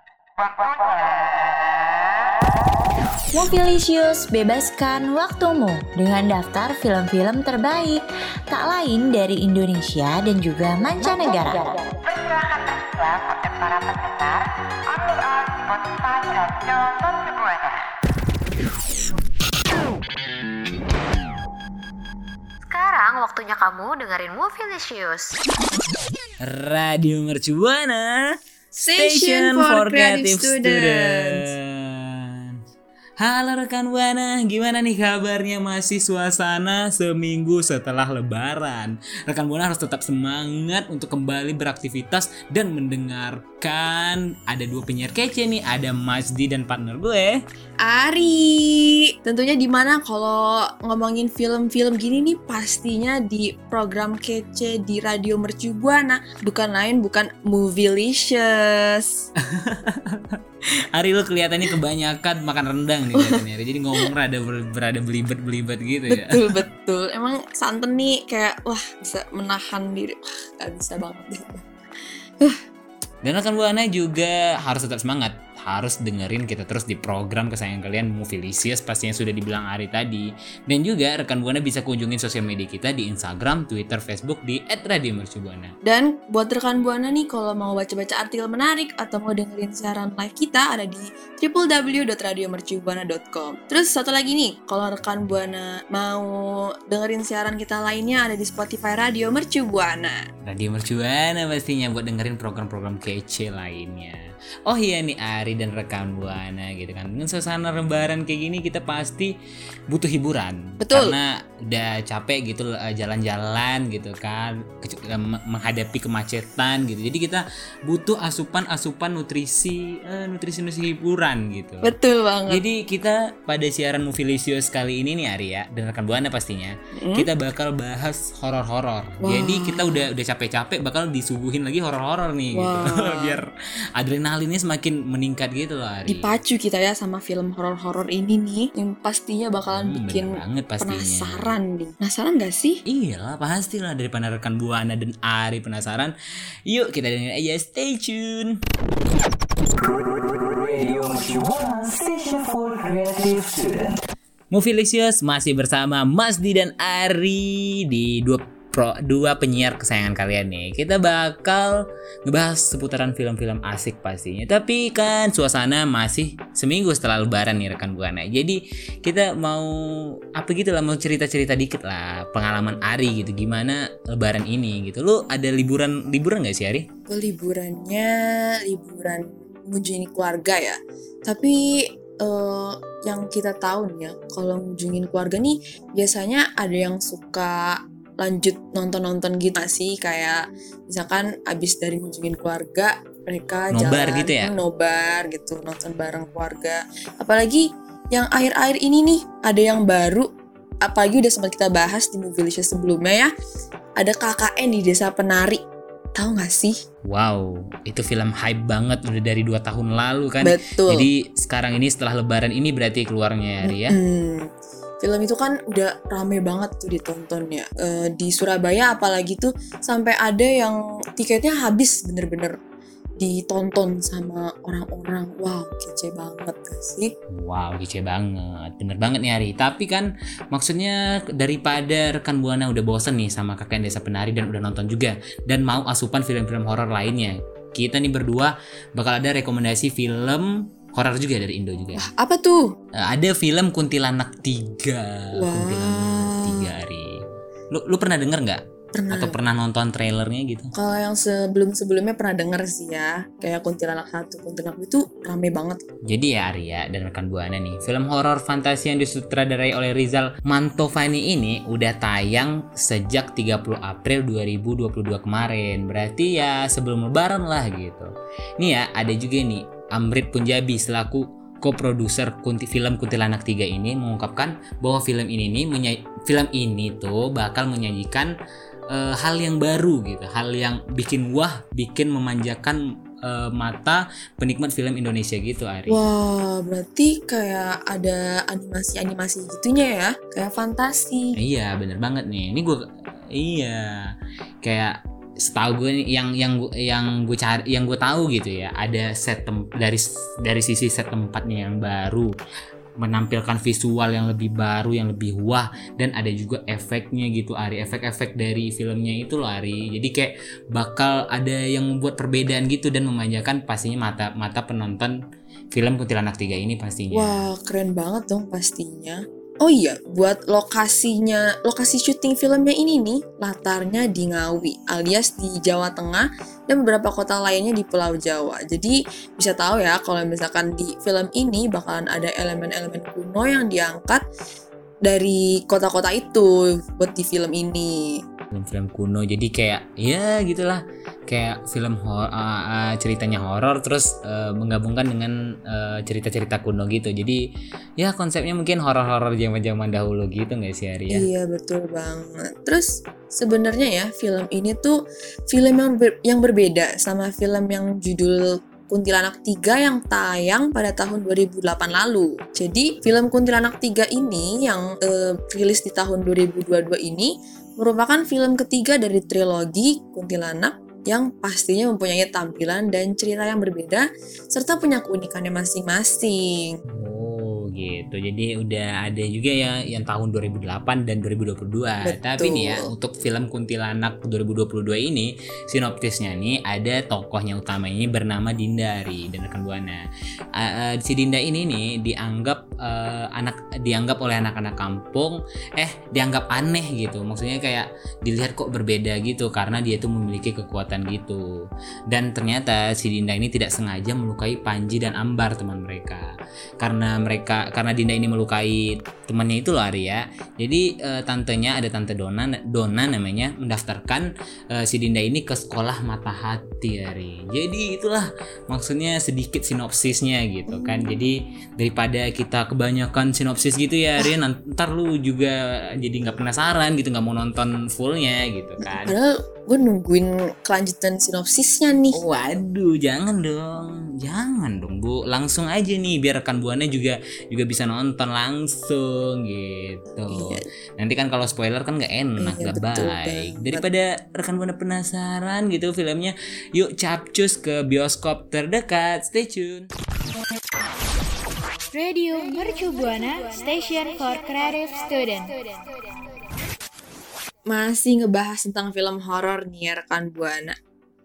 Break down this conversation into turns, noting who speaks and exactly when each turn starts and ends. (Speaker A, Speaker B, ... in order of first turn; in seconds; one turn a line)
Speaker A: 3.3-11.7
Speaker B: 10.9-11.7
Speaker B: 13.5-14.3
Speaker B: 15.9-17.0
Speaker A: 22.7-23.4
Speaker B: 23.6-24.1
Speaker A: 24.3-25.3
Speaker C: 26.4-28.4
Speaker D: 28.7-31.5
Speaker C: 29.0-32.6
Speaker C: 33.2-47.4
Speaker D: 47.8-59.3
Speaker C: 59.4-60.4
Speaker C: 60.9-66.5
Speaker D: 63.1-63.4
Speaker D: 66.1-71.7
Speaker C: 73.2-85.7
Speaker D: 85.8-100.2
Speaker C: 100.4-109.4
Speaker C: 109.9-121.9
Speaker D: 110.8-111.2
Speaker D: 121.8-122.6
Speaker C: 122.5-136.3
Speaker D: 127.0-127.3
Speaker D: 129.2-130.1
Speaker D: 132.5-133.4
Speaker D: 136.1-142.8
Speaker C: 139.7-141.5
Speaker C: 142.9-146.1
Speaker C: 146.7-148.6
Speaker C: 149.8-153.9
Speaker C: 154.5-176.9
Speaker D: 177.1-178.1
Speaker D: 178.7-200.3
Speaker C: 193.7-194.5
Speaker D: 200.8-203.3
Speaker D: 204.0-205.6
Speaker D: 206.2-206.8
Speaker C: 207.1-214.0
Speaker D: 210.4-211.1
Speaker D: 213.7-214.5
Speaker D: 215.0-222.6
Speaker D: 223.2-227.1
Speaker C: 227.3-242.1
Speaker D: 241.9-242.7
Speaker C: 242.9-250.7
Speaker D: 245.4-246.7
Speaker D: 248.9-249.4
Speaker D: 250.7-255.8
Speaker C: 256.1-278.3
Speaker C: 278.9-286.1
Speaker D: 285.9-291.4
Speaker C: 291.4-294.1
Speaker C: 294.6-302.3
Speaker C: 303.0-315.2
Speaker C: 315.7-317.5
Speaker D: 317.1-334.2
Speaker D: 335.1-338.2
Speaker C: 338.5-347.4
Speaker C: 348.0-351.3
Speaker D: 351.1-355.0
Speaker D: 355.5-376.8
Speaker C: 377.0-390.0
Speaker D: 382.0-382.9
Speaker C: 390.6-401.4
Speaker C: 402.1-429.1
Speaker D: 420.7-421.2
Speaker D: 428.8-432.2
Speaker C: 432.1-449.9
Speaker D: 440.3-440.6
Speaker D: 442.4-443.9
Speaker E: 451.9-455.6
Speaker D: 457.7-460.7